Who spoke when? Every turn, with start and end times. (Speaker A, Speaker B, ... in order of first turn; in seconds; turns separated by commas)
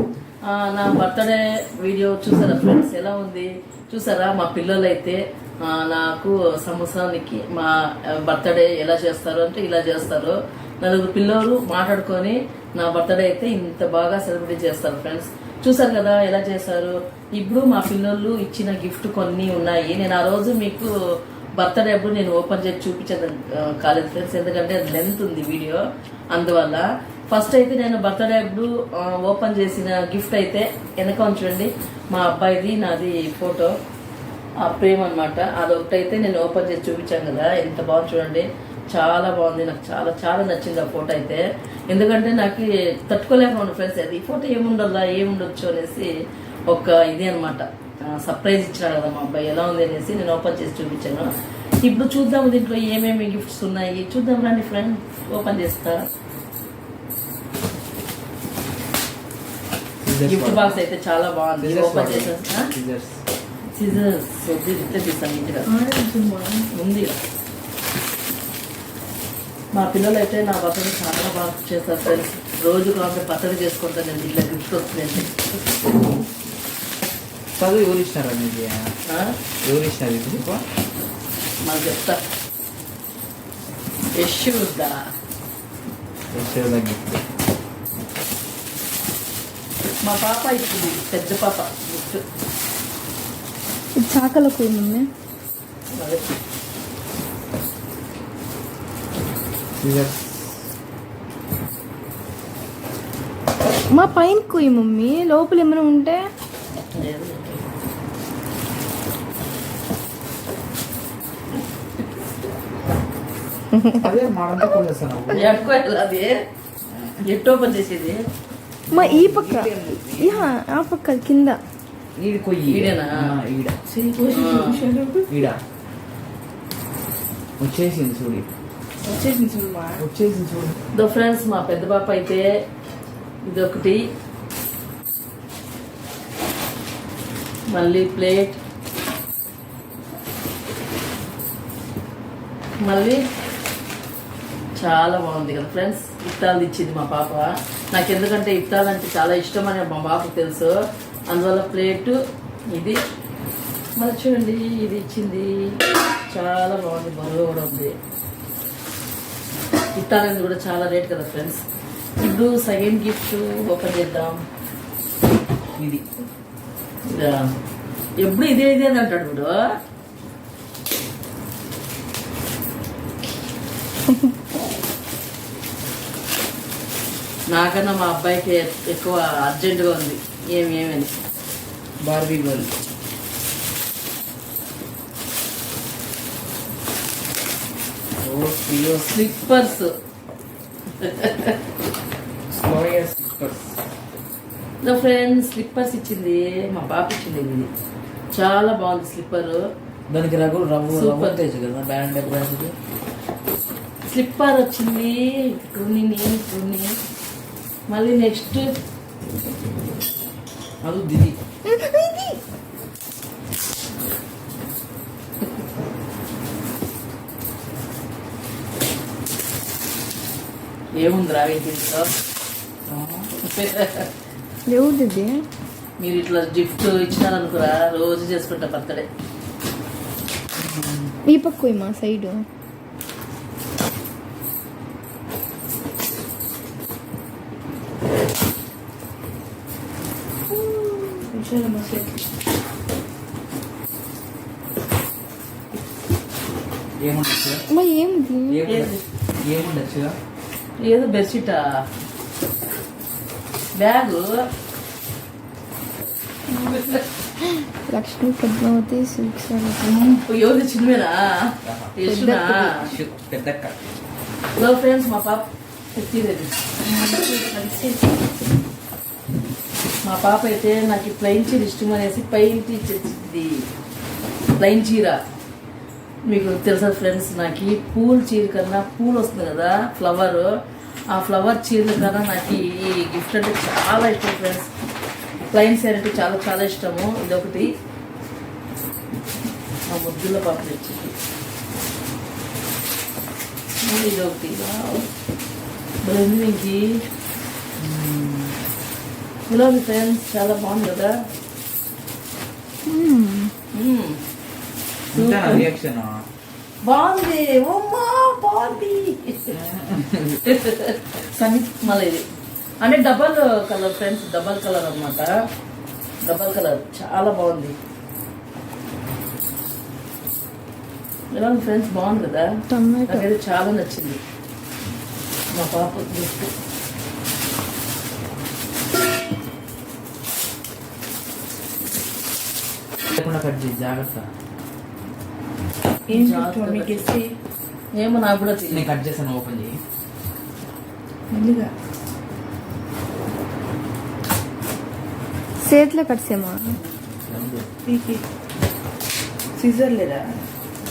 Speaker A: 0.4-20.9, Speaker A: 21.6-33.7, Speaker A: 34.6-46.1, Speaker A: 46.7-51.3, Speaker A: 51.8-56.1, Speaker B: 60.0-60.8, Speaker A: 60.3-62.7, Speaker B: 61.6-63.2, Speaker A: 63.8-65.7, Speaker C: 65.7-66.7, Speaker A: 66.7-67.2, Speaker A: 69.7-75.6, Speaker B: 77.6-78.9, Speaker A: 79.0-79.3, Speaker B: 79.6-80.6, Speaker A: 81.6-82.2, Speaker A: 84.2-85.0, Speaker B: 86.3-87.2, Speaker A: 90.0-92.2, Speaker D: 94.0-95.1, Speaker A: 96.0-96.3, Speaker B: 99.8-100.7, Speaker D: 103.9-106.3, Speaker A: 106.9-107.6, Speaker D: 113.7-114.8, Speaker B: 114.0-115.6, Speaker A: 115.3-116.3, Speaker A: 117.2-118.2, Speaker B: 118.9-120.5, Speaker D: 118.9-121.6, Speaker B: 122.2-123.8, Speaker A: 122.7-123.3, Speaker C: 123.9-125.3, Speaker A: 124.3-124.8, Speaker B: 125.3-125.6, Speaker B: 127.6-128.5, Speaker C: 129.0-130.0, Speaker B: 130.0-130.8, Speaker A: 130.9-132.5, Speaker A: 133.4-134.1, Speaker A: 137.7-138.6, Speaker A: 142.8-143.2, Speaker A: 144.8-150.8, Speaker A: 151.3-152.2, Speaker A: 152.7-153.0, Speaker A: 154.0-155.7, Speaker A: 156.3-157.9, Speaker A: 159.9-161.6, Speaker A: 162.2-164.4, Speaker B: 165.8-166.0, Speaker A: 167.1-167.5, Speaker A: 168.2-169.7, Speaker D: 174.1-174.3, Speaker A: 177.5-181.1, Speaker B: 182.0-182.7, Speaker B: 188.2-189.2, Speaker A: 189.0-189.9, Speaker A: 191.0-191.6, Speaker B: 192.5-193.8, Speaker A: 194.8-197.7, Speaker A: 198.3-199.6, Speaker B: 200.1-202.7, Speaker A: 200.9-201.3, Speaker A: 204.1-206.9, Speaker A: 207.9-208.8, Speaker B: 210.8-211.4, Speaker D: 211.7-212.4, Speaker A: 220.9-222.1, Speaker B: 222.8-223.3, Speaker A: 223.4-224.1, Speaker D: 224.7-225.4, Speaker A: 226.0-229.1, Speaker B: 230.6-231.1, Speaker D: 231.2-232.4, Speaker D: 240.5-241.2, Speaker C: 241.3-242.2, Speaker B: 247.0-247.6, Speaker D: 247.7-248.7, Speaker B: 248.5-250.2, Speaker A: 248.7-249.0, Speaker A: 250.8-251.7, Speaker A: 253.8-254.4, Speaker D: 256.5-259.8, Speaker A: 256.6-257.0, Speaker A: 259.8-262.8, Speaker B: 261.6-261.9, Speaker D: 262.0-262.9, Speaker B: 262.8-263.9, Speaker A: 264.6-266.5, Speaker C: 266.8-268.1, Speaker A: 270.0-273.6, Speaker A: 274.6-275.2, Speaker A: 276.3-280.5, Speaker A: 281.1-284.7, Speaker A: 285.5-287.7, Speaker A: 289.9-291.1, Speaker A: 293.8-295.1, Speaker A: 296.0-297.0, Speaker B: 297.8-298.6, Speaker A: 299.5-301.2, Speaker D: 302.9-303.5, Speaker A: 303.7-304.2, Speaker B: 305.1-306.2, Speaker A: 305.1-305.7, Speaker A: 306.8-309.6, Speaker B: 309.5-310.4, Speaker A: 310.4-312.2, Speaker A: 312.8-315.3, Speaker A: 316.2-317.7, Speaker A: 321.3-322.5, Speaker D: 322.7-323.3, Speaker A: 323.1-324.2, Speaker A: 325.5-326.5, Speaker B: 333.1-334.3, Speaker C: 336.1-337.2, Speaker A: 336.1-337.1, Speaker A: 337.9-338.9, Speaker B: 338.7-339.8, Speaker C: 341.3-341.7, Speaker D: 345.6-346.8, Speaker B: 346.8-347.7, Speaker C: 347.8-348.2, Speaker C: 349.6-350.4